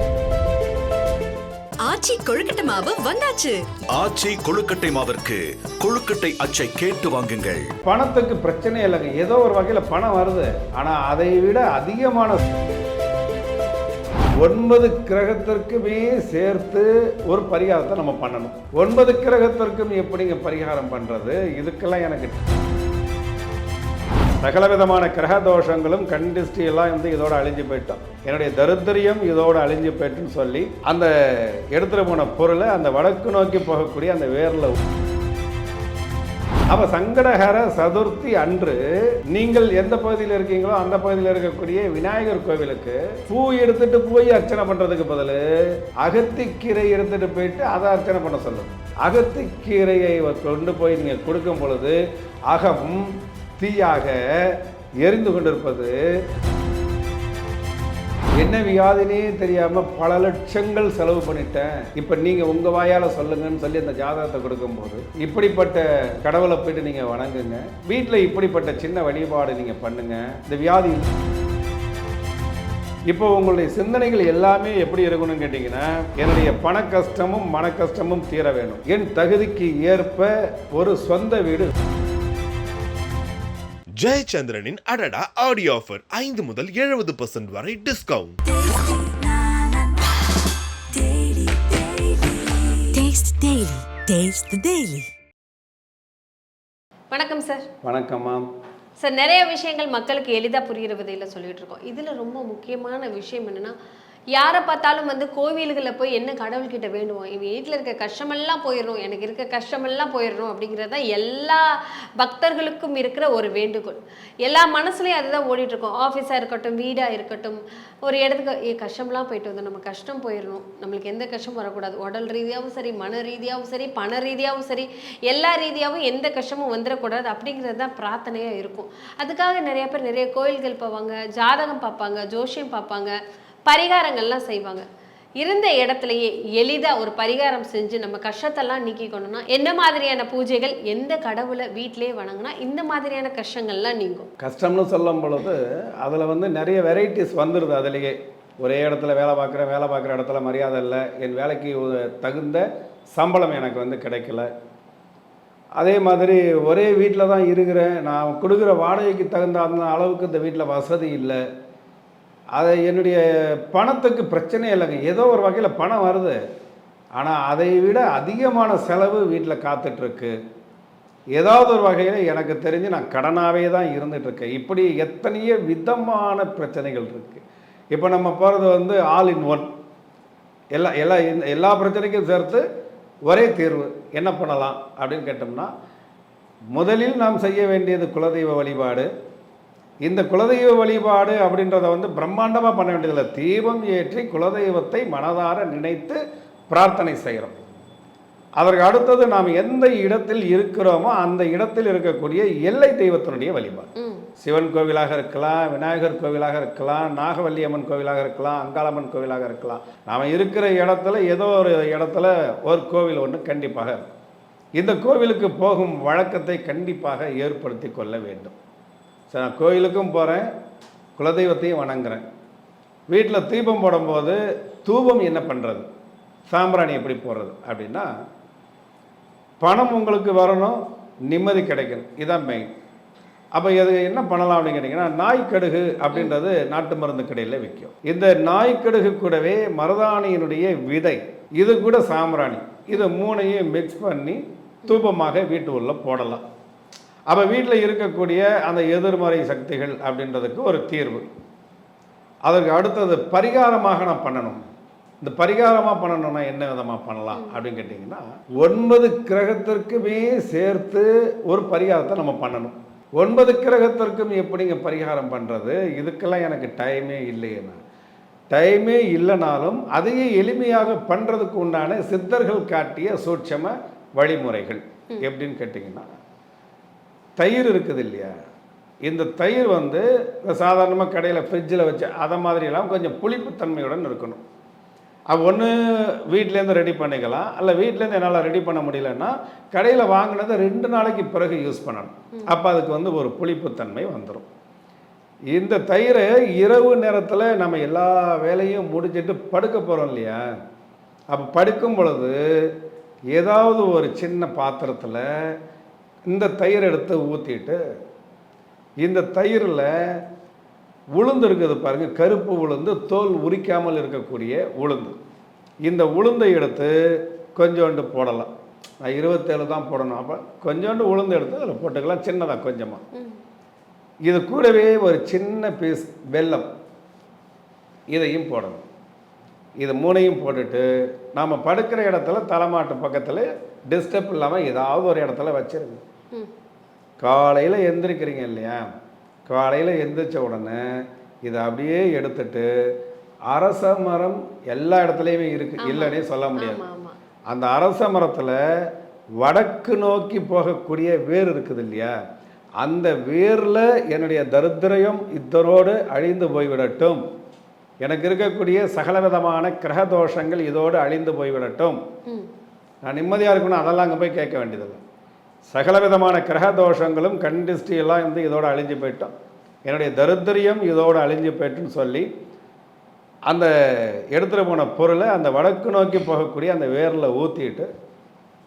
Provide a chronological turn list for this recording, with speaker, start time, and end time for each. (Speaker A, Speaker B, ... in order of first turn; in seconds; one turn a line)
Speaker A: 1.9-3.6
Speaker B: 3.9-7.7
Speaker C: 7.8-12.6
Speaker C: 14.4-22.4
Speaker C: 24.4-34.8
Speaker C: 36.7-56.0
Speaker C: 58.4-71.1
Speaker C: 73.1-81.7
Speaker D: 84.0-88.4
Speaker E: 88.6-89.9
Speaker E: 90.9-92.6
Speaker A: 92.9-95.1
Speaker E: 97.1-97.7
Speaker C: 97.8-98.5
Speaker E: 99.0-103.7
Speaker E: 104.3-133.1
Speaker E: 133.7-134.9
Speaker E: 135.4-144.3
Speaker C: 144.4-154.5
Speaker C: 155.8-161.4
Speaker C: 162.6-166.4
Speaker C: 167.2-170.3
Speaker C: 171.4-177.4
Speaker C: 177.9-179.7
Speaker C: 180.8-182.6
Speaker C: 183.3-185.7
Speaker C: 186.7-189.1
Speaker C: 190.1-197.6
Speaker C: 198.6-203.9
Speaker E: 204.0-204.3
Speaker C: 204.4-214.0
Speaker C: 214.8-218.6
Speaker C: 219.3-220.5
Speaker C: 221.2-222.2
Speaker C: 223.1-225.9
Speaker C: 226.5-228.1
Speaker C: 229.6-232.7
Speaker C: 233.6-246.4
Speaker C: 247.3-251.2
Speaker C: 252.5-254.7
Speaker C: 255.2-267.8
Speaker E: 257.3-257.6
Speaker C: 268.5-276.1
Speaker C: 277.4-278.3
Speaker C: 279.1-284.4
Speaker C: 285.3-294.5
Speaker C: 295.5-300.4
Speaker C: 301.3-302.7
Speaker C: 303.3-305.2
Speaker C: 306.3-307.8
Speaker C: 309.0-310.2
Speaker C: 311.2-315.2
Speaker C: 315.9-318.5
Speaker C: 319.0-323.0
Speaker E: 323.1-323.4
Speaker C: 324.3-326.7
Speaker C: 328.1-328.8
Speaker C: 329.8-336.0
Speaker C: 337.2-338.9
Speaker C: 339.5-342.7
Speaker C: 343.5-346.8
Speaker E: 345.8-347.2
Speaker C: 347.5-348.6
Speaker C: 349.4-352.1
Speaker C: 352.8-357.2
Speaker C: 358.0-362.0
Speaker C: 363.1-365.0
Speaker C: 365.7-369.3
Speaker C: 369.9-372.3
Speaker C: 373.5-377.9